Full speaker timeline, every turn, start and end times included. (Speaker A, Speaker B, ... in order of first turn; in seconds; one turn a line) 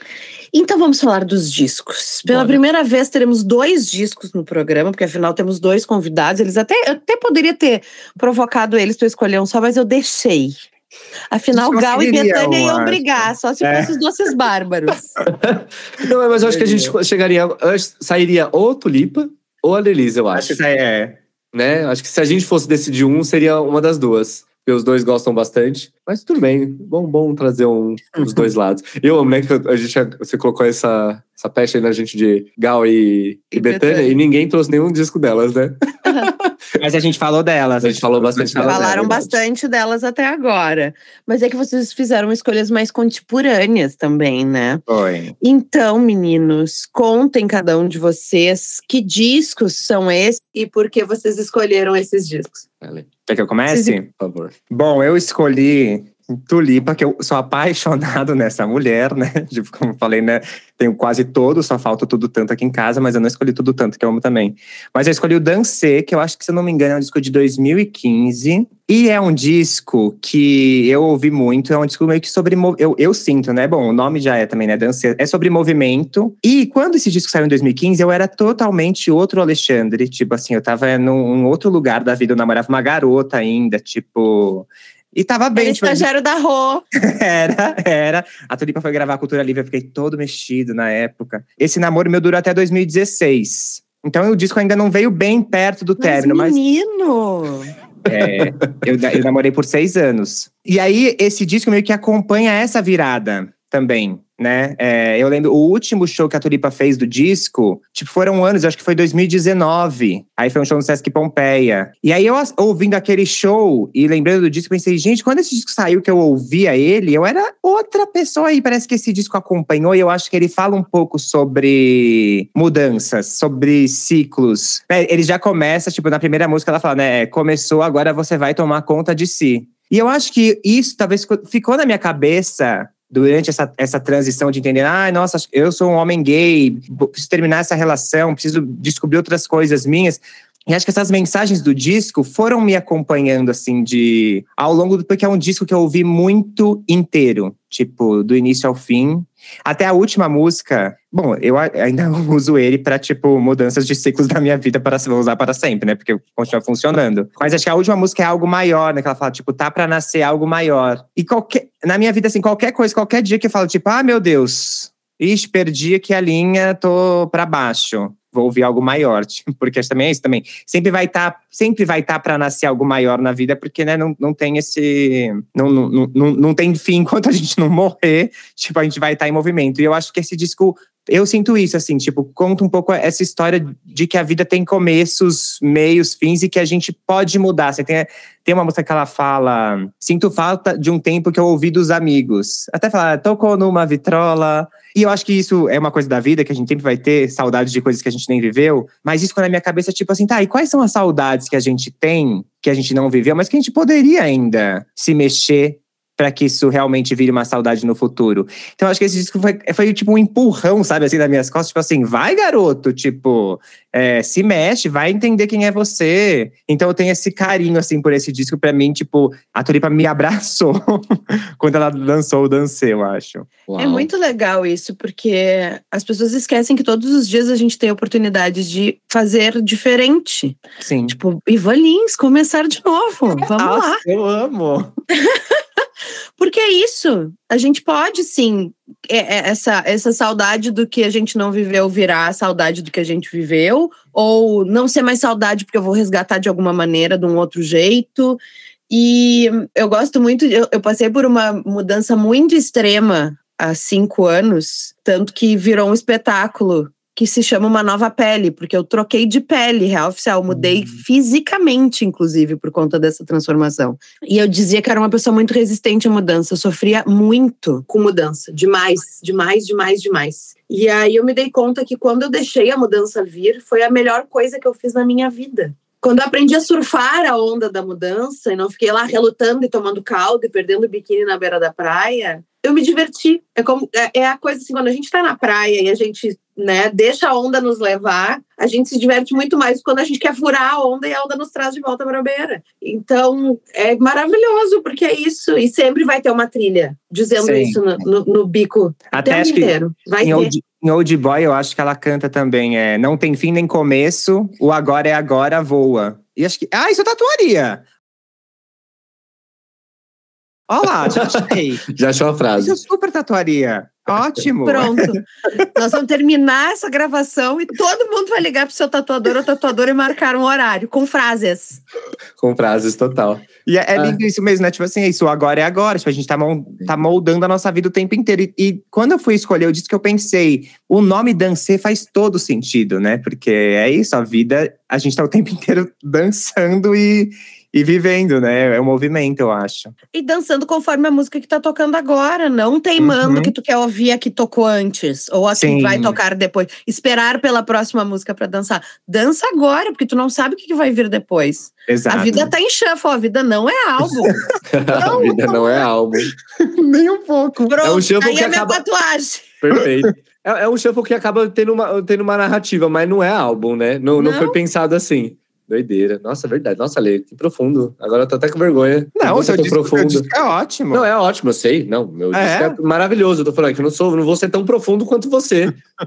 Speaker A: 0.5-10.6
Speaker B: 2.3-2.6
Speaker A: 11.3-15.2
Speaker C: 11.5-13.9
Speaker B: 15.4-20.6
Speaker C: 16.4-16.9
Speaker C: 20.3-21.2
Speaker B: 21.5-36.5
Speaker A: 33.5-34.2
Speaker C: 36.8-39.3
Speaker B: 37.8-39.3
Speaker A: 38.6-44.8
Speaker C: 44.9-45.3
Speaker A: 45.4-52.6
Speaker B: 52.8-53.1
Speaker C: 53.3-54.1
Speaker A: 53.7-54.0
Speaker B: 54.2-54.5
Speaker C: 54.7-86.0
Speaker A: 85.5-86.8
Speaker C: 86.9-96.6
Speaker A: 96.0-97.7
Speaker C: 98.0-224.1
Speaker B: 223.7-224.0
Speaker A: 223.8-234.0
Speaker C: 230.8-231.2
Speaker C: 233.4-234.9
Speaker A: 236.4-300.5
Speaker C: 297.4-297.8
Speaker C: 299.1-307.8
Speaker C: 310.7-311.9
Speaker B: 311.1-312.8
Speaker C: 312.6-315.0
Speaker A: 314.6-321.8
Speaker B: 322.4-324.2
Speaker C: 323.6-339.9
Speaker A: 340.1-354.4
Speaker C: 343.0-343.5
Speaker C: 345.5-346.2
Speaker C: 351.9-352.5
Speaker B: 354.7-356.3
Speaker A: 354.9-355.8
Speaker C: 355.0-355.3
Speaker C: 356.6-357.8
Speaker A: 357.6-359.5
Speaker B: 357.8-358.8
Speaker B: 359.6-370.3
Speaker A: 364.2-364.6
Speaker C: 369.2-371.0
Speaker B: 370.9-375.8
Speaker C: 372.3-372.8